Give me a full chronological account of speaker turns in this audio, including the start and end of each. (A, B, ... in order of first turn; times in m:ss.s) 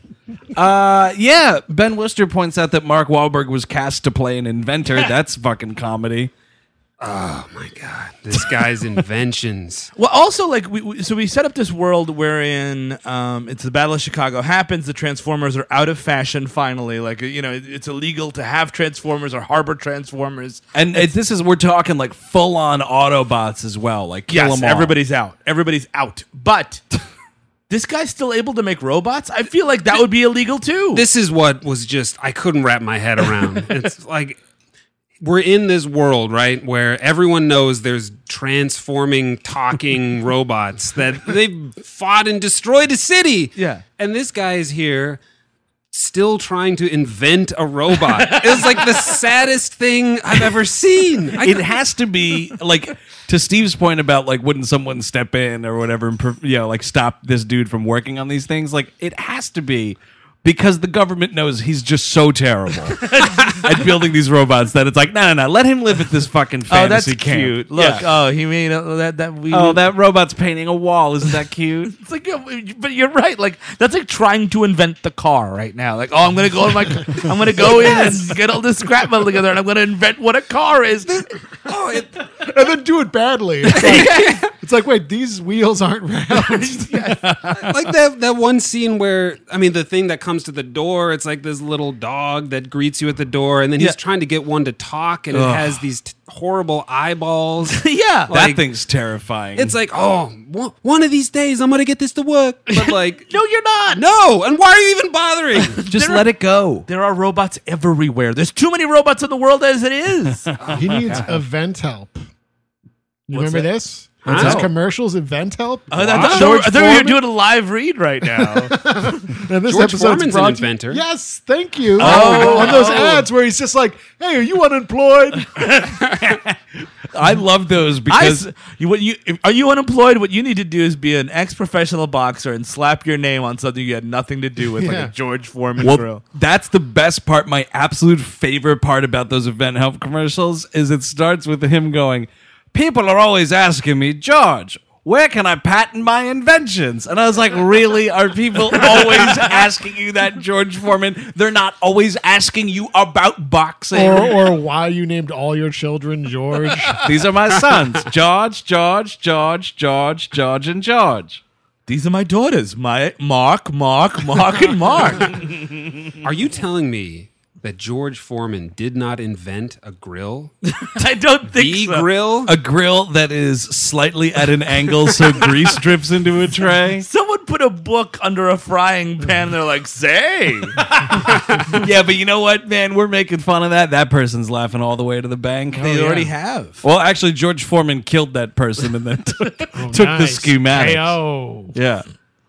0:00.5-0:06.3 A
0:07.0-0:09.9 B
0:10.0-0:21.1 C
0:20.8-0:24.9 A
0:24.3-0:26.8 C
0:27.7-0:31.0 C
0:30.9-0:34.4 B
0:35.2-0:45.2 B
0:43.6-0:43.8 C
0:45.9-0:51.7 B
0:48.3-0:48.9 C
0:51.4-1:08.1 A
1:03.1-1:03.5 C
1:06.7-1:09.8 C
1:09.5-1:11.9 A
1:11.9-1:21.3 C
1:17.6-1:18.1 D
1:21.0-1:22.2 B
1:22.4-1:27.0 D
1:23.7-1:24.4 B
1:23.8-1:24.4 C
1:26.4-1:27.7 C
1:27.5-1:38.6 B
1:35.3-1:35.8 A
1:37.7-1:38.3 C
1:38.3-1:39.7 A
1:39.6-1:43.3 B
1:42.7-1:44.0 C
1:43.9-1:45.8 B
1:45.8-1:46.3 C
1:45.9-1:46.9 A
1:46.9-1:50.5 C
1:50.6-1:51.4 B
1:50.8-1:52.2 D
1:53.3-1:57.2 D
1:54.2-1:54.7 C
1:54.2-1:54.7 B
1:55.9-1:58.8 C
1:56.0-1:56.5 B
1:58.4-2:05.8 D
1:59.6-2:01.0 B
2:02.0-2:03.2 C
2:02.0-2:02.7 A
2:02.0-2:02.9 B
2:06.1-2:06.6 A
2:07.1-2:08.4 A
2:08.1-2:16.2 C
2:14.8-2:15.1 D
2:15.8-2:34.4 A
2:33.9-2:37.0 D
2:37.0-2:41.4 A
2:41.9-2:45.4 C
2:46.2-2:50.5 B
2:50.6-2:52.1 C
2:51.5-2:52.5 B
2:52.4-2:57.0 A
2:57.0-3:00.8 C
3:00.8-3:06.2 A
3:05.7-3:06.3 D
3:05.8-3:06.8 C
3:06.8-3:11.2 A
3:09.8-3:11.7 D
3:11.7-3:12.0 A